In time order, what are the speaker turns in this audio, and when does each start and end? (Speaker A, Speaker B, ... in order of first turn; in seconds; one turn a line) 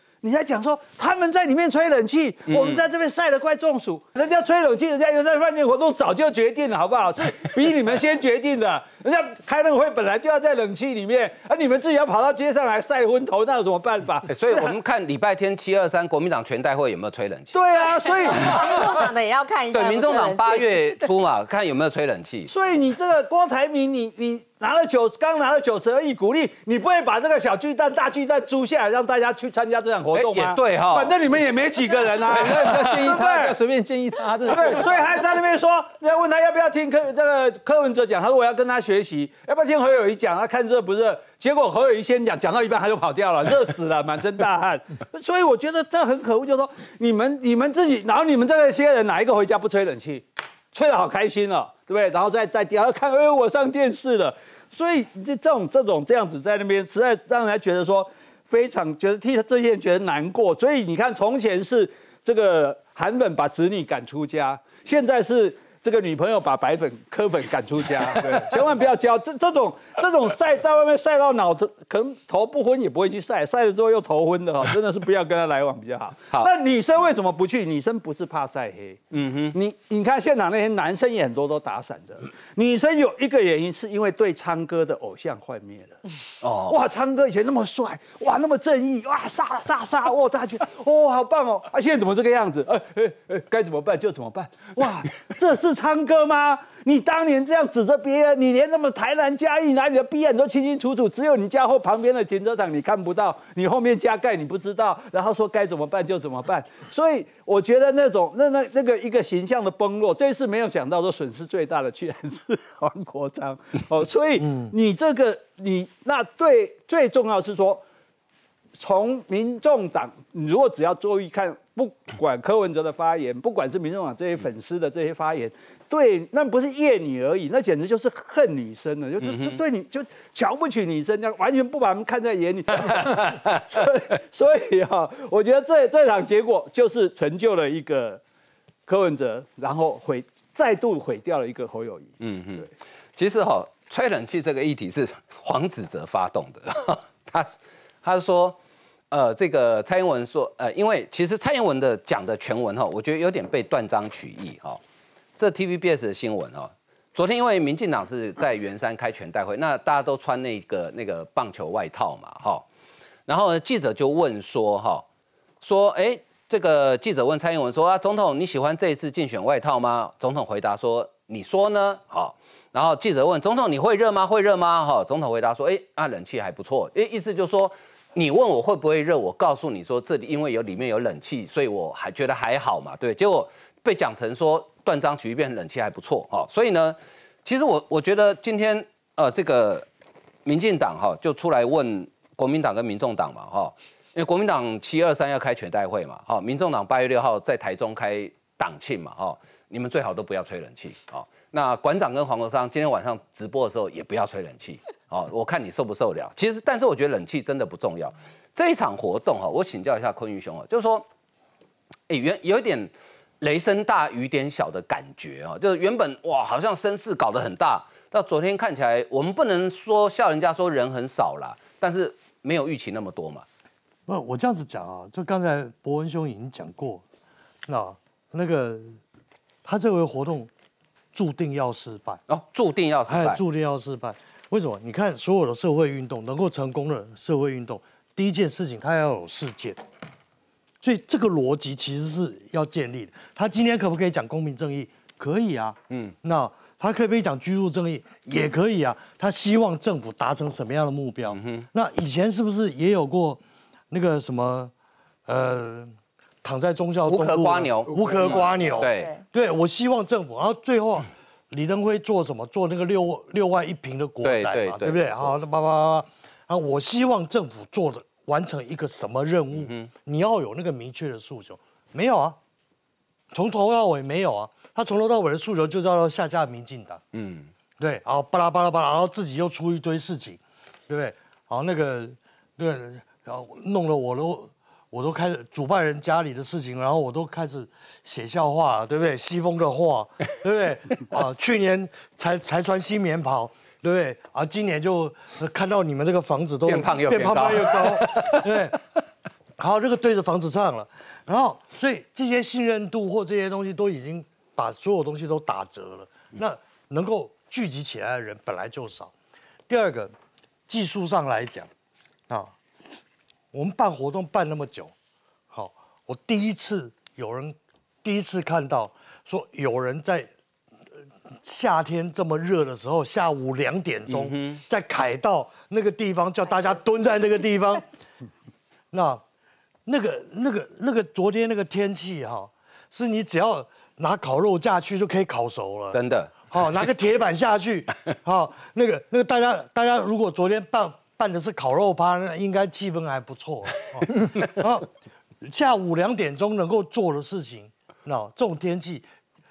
Speaker A: 0.2-14.8
Speaker B: 2.5-2.8
Speaker B: 14.3-17.6
Speaker A: 17.5-18.8
Speaker C: 18.3-20.8
Speaker B: 19.7-22.5
Speaker A: 22.5-33.6
Speaker B: 30.1-31.1
Speaker D: 32.3-35.1
Speaker A: 34.5-79.0
Speaker B: 79.1-79.6
Speaker A: 79.5-86.0
Speaker B: 86.4-86.8
Speaker A: 86.7-117.8
Speaker E: 114.4-114.7
Speaker A: 118.8-138.2
Speaker B: 129.2-129.6
Speaker A: 138.9-142.7
Speaker B: 142.2-148.6
Speaker B: 149.1-154.8
Speaker B: 155.4-162.7
Speaker B: 163.3-165.1
Speaker B: 165.6-189.9
Speaker B: 190.4-211.1
Speaker B: 212.1-223.5
Speaker E: 224.1-227.0
Speaker E: 227.7-229.0
Speaker E: 229.7-230.5
Speaker E: 231.1-232.2
Speaker B: 232.3-233.4
Speaker E: 233.1-239.8
Speaker E: 240.8-254.7
Speaker B: 245.9-246.2
Speaker B: 251.3-251.7
Speaker E: 255.3-255.9
Speaker E: 256.4-272.4
Speaker B: 257.1-259.1
Speaker C: 258.6-259.2
Speaker B: 264.2-265.3
Speaker B: 269.5-269.9
Speaker E: 273.3-277.0
Speaker B: 277.1-277.5
Speaker E: 277.8-298.8
Speaker B: 296.6-298.5
Speaker E: 299.6-309.1
Speaker E: 309.7-310.1
Speaker E: 310.7-311.7
Speaker E: 312.3-312.5
Speaker E: 313.5-314.9
Speaker E: 315.5-320.3
Speaker E: 321.4-327.8
Speaker B: 324.1-324.6
Speaker E: 328.9-329.2
Speaker E: 329.9-344.9
Speaker B: 335.9-336.6
Speaker E: 345.4-349.1